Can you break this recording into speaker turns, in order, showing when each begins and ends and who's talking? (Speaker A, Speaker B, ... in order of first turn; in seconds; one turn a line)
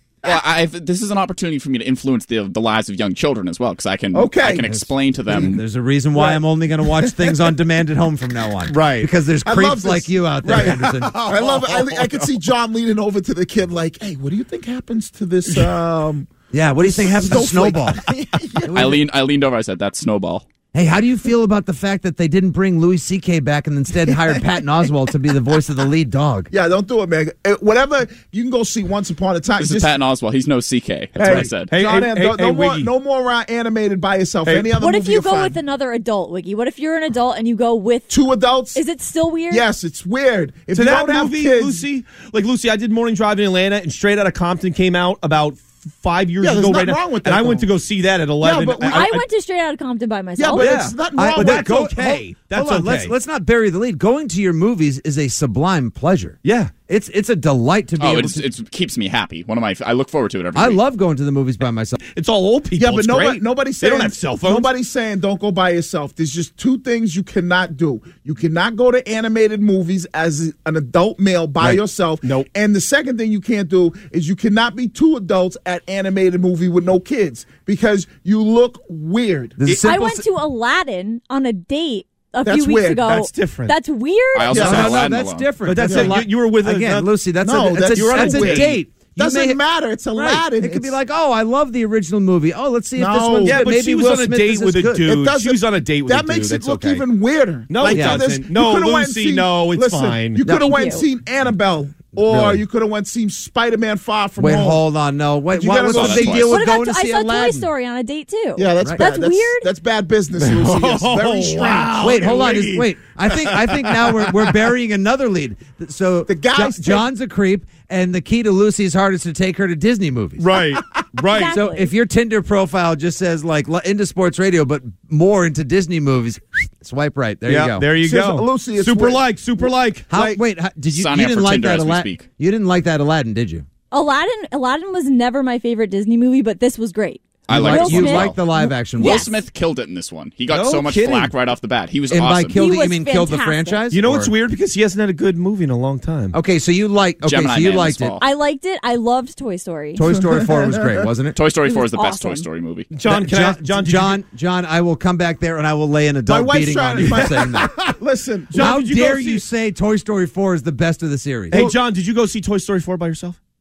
Speaker A: 0.2-5.6
Speaker B: 4.1-4.7
Speaker C: 4.6-11.2
Speaker B: 5.3-5.6
Speaker B: 7.0-7.4
Speaker D: 8.7-9.1
Speaker B: 9.4-16.3
Speaker D: 10.6-12.2
Speaker C: 16.5-18.0
Speaker B: 16.8-18.8
Speaker C: 18.6-19.1
Speaker A: 18.7-20.5
Speaker C: 20.7-26.5
Speaker B: 26.5-29.9
Speaker A: 29.6-31.7
Speaker B: 31.2-35.6
Speaker D: 31.2-32.9
Speaker D: 34.5-34.8
Speaker E: 34.8-38.1
Speaker B: 38.1-38.8
Speaker E: 38.8-39.6
Speaker B: 39.5-41.8
Speaker D: 40.7-49.3
Speaker B: 46.4-47.7
Speaker B: 48.4-49.1
Speaker E: 48.9-50.8
Speaker B: 50.4-51.8
Speaker D: 50.6-53.1
Speaker C: 51.2-56.4
Speaker D: 56.4-56.7
Speaker C: 56.9-58.5
Speaker A: 58.0-60.8
Speaker C: 60.5-62.0
Speaker D: 62.0-64.7
Speaker B: 62.8-79.6
Speaker D: 71.6-72.5
Speaker C: 79.6-80.2
Speaker D: 79.7-80.2
Speaker E: 79.8-84.6
Speaker B: 82.4-83.1
Speaker D: 83.0-83.8
Speaker A: 84.3-85.5
Speaker B: 84.5-84.9
Speaker C: 84.5-89.6
Speaker D: 85.6-87.1
Speaker B: 85.9-86.1
Speaker B: 87.4-90.9
Speaker D: 87.9-88.8
Speaker C: 90.1-95.1
Speaker B: 93.0-93.7
Speaker D: 93.5-97.0
Speaker B: 95.1-104.8
Speaker D: 97.7-100.4
Speaker C: 97.8-98.2
Speaker E: 100.4-101.0
Speaker C: 102.2-102.6
Speaker C: 104.4-107.7
Speaker B: 105.5-106.6
Speaker A: 105.9-106.4
Speaker E: 106.5-109.7
Speaker B: 108.6-112.2
Speaker D: 110.4-114.5
Speaker C: 112.0-120.7
Speaker B: 116.3-117.0
Speaker D: 120.4-121.6
Speaker E: 121.3-121.9
Speaker C: 121.4-127.9
Speaker D: 127.5-130.1
Speaker B: 128.0-130.4
Speaker C: 130.1-133.7
Speaker A: 130.9-132.2
Speaker E: 133.9-139.4
Speaker D: 137.5-137.8
Speaker C: 137.5-139.3
Speaker A: 137.5-138.4
Speaker A: 139.0-142.6
Speaker D: 140.5-141.2
Speaker C: 140.7-141.3
Speaker C: 142.1-144.3
Speaker E: 142.6-143.8
Speaker D: 143.9-146.3
Speaker C: 146.3-148.2
Speaker A: 147.2-148.2
Speaker E: 148.2-150.1
Speaker C: 150.0-151.4
Speaker B: 150.1-150.8
Speaker A: 151.3-152.9
Speaker E: 151.6-152.5
Speaker D: 152.9-154.2
Speaker C: 153.1-157.8
Speaker B: 156.3-158.7
Speaker D: 158.5-159.4
Speaker C: 158.6-161.6
Speaker D: 161.5-163.4